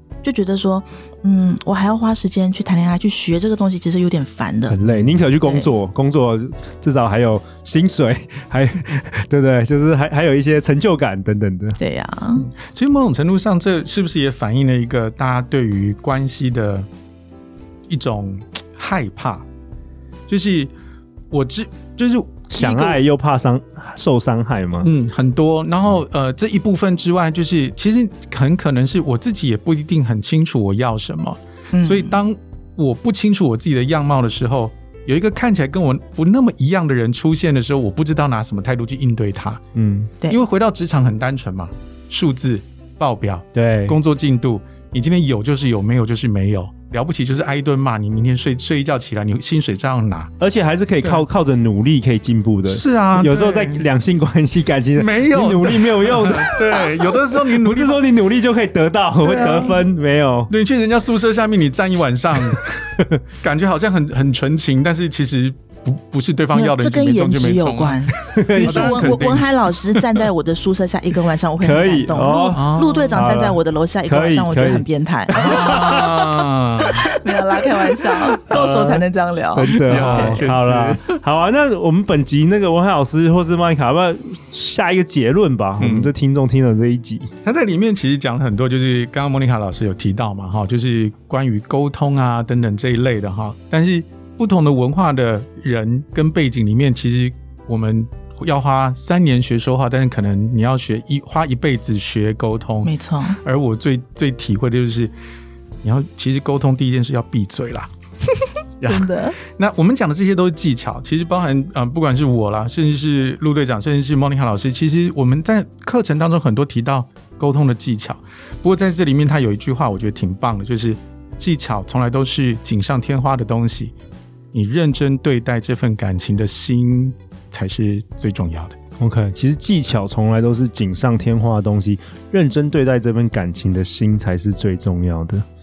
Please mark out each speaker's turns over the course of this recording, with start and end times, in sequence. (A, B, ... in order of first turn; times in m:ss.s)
0:00.2-0:04.8 A
0:04.7-0:11.8 B
0:04.8-0:05.2 C
0:05.4-0:05.7 A
0:11.8-0:12.5 A
0:12.4-0:16.9 C
0:17.9-0:19.4 C
0:20.3-0:20.7 C
0:21.3-0:23.0 C
0:22.5-0:24.9 B
0:24.8-0:39.6 C
0:31.7-0:32.2 A
0:39.7-0:40.1 B
0:40.3-0:50.3 C
0:43.5-0:44.0 B
0:50.4-1:00.5 B
0:52.6-0:53.9 C
0:54.9-0:58.1 C
0:59.2-0:59.8 C
0:59.3-0:59.5 A
1:00.5-1:02.8 C
1:02.5-1:03.1 B
1:03.4-1:09.5 C
1:06.5-1:20.4 A
1:08.2-1:09.2 B
1:11.6-1:16.1 B
1:12.5-1:13.3 C
1:15.3-1:17.0 C
1:18.1-1:19.0 B
1:19.5-1:27.3 B
1:19.7-1:21.1 C
1:25.8-1:26.1 C
1:27.4-1:45.1 C
1:42.8-1:43.4 A
1:45.8-1:47.9 C
1:48.8-2:03.9 C
1:48.8-1:49.4 A
2:04.5-2:08.8 C
2:09.0-2:15.4 B